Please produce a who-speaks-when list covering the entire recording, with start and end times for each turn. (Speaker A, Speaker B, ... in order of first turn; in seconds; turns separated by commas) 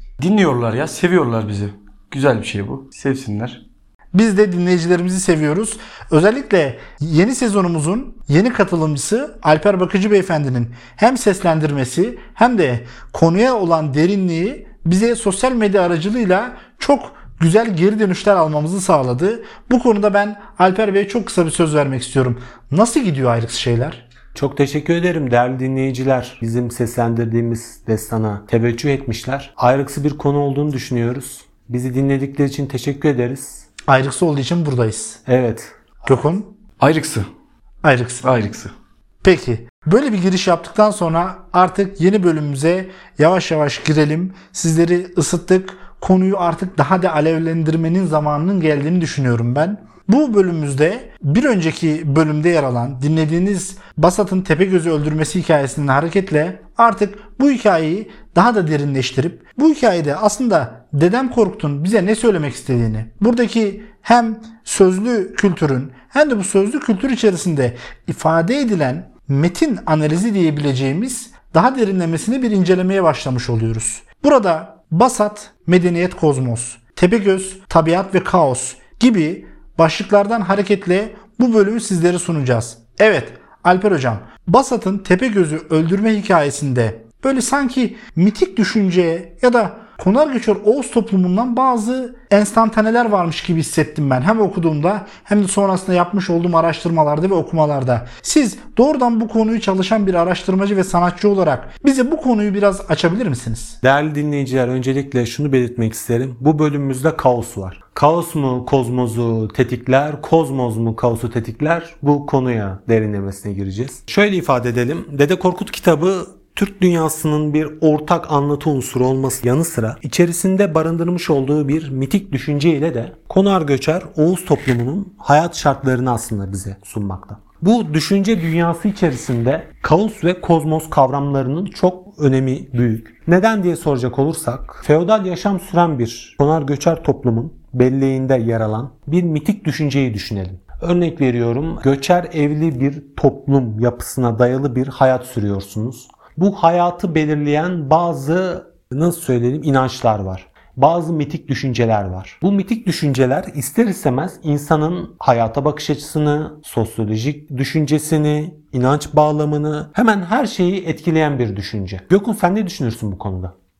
Speaker A: 0.2-3.6, Speaker B: 4.1-24.0, Speaker C: 24.3-33.6, Speaker B: 33.9-35.2, Speaker C: 35.2-35.8, Speaker B: 36.0-36.5, Speaker A: 36.8-37.3, Speaker B: 37.8-38.2, Speaker A: 38.2-38.7, Speaker B: 39.2-103.8, Speaker C: 103.8-163.5